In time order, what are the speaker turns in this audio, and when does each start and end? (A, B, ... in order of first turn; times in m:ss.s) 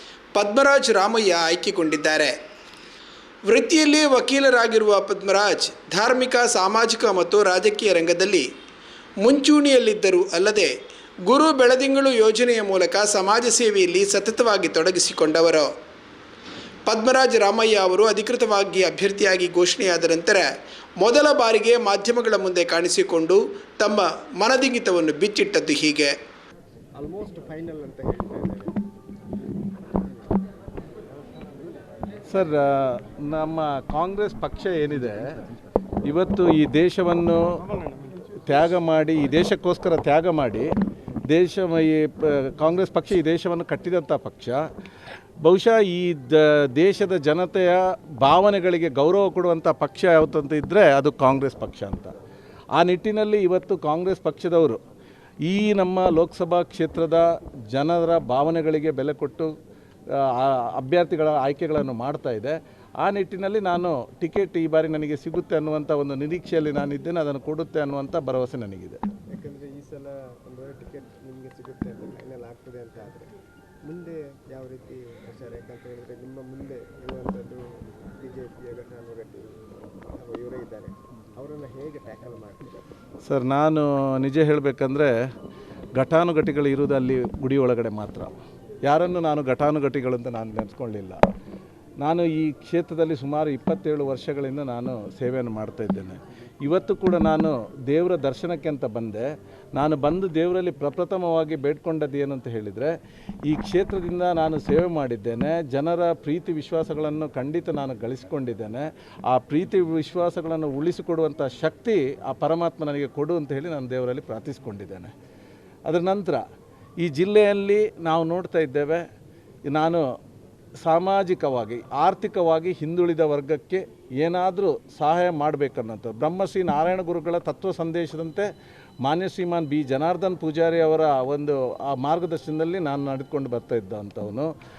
0:00.3-0:02.3 A
0:03.5-0:08.5 A
0:09.2-0:10.7 A
0:11.2-0:15.7 A
0:16.9-0:20.5 A
0:21.0-0:26.1 A
0:26.9-0:28.8 B
0:29.9-0:30.4 B
0:30.9-0:32.3 B
0:32.3-0:35.3 C
0:36.0-0:37.6 C
0:37.8-0:38.3 B
0:38.4-0:40.7 C
0:41.3-0:44.6 C
0:45.4-0:52.1 C
0:52.7-0:54.8 C
0:55.4-0:59.5 C
1:00.1-1:09.0 C
1:09.3-1:13.3 B
1:13.8-1:17.6 B
1:18.2-1:19.6 B
1:20.2-1:22.9 B
1:23.2-1:25.1 C
1:25.9-1:31.2 C
1:32.0-1:42.9 C
1:43.4-1:55.1 C
1:55.8-1:56.4 C
1:57.0-1:59.0 C
1:59.7-2:00.0 C
2:00.8-2:08.5 C
2:09.0-2:14.5 C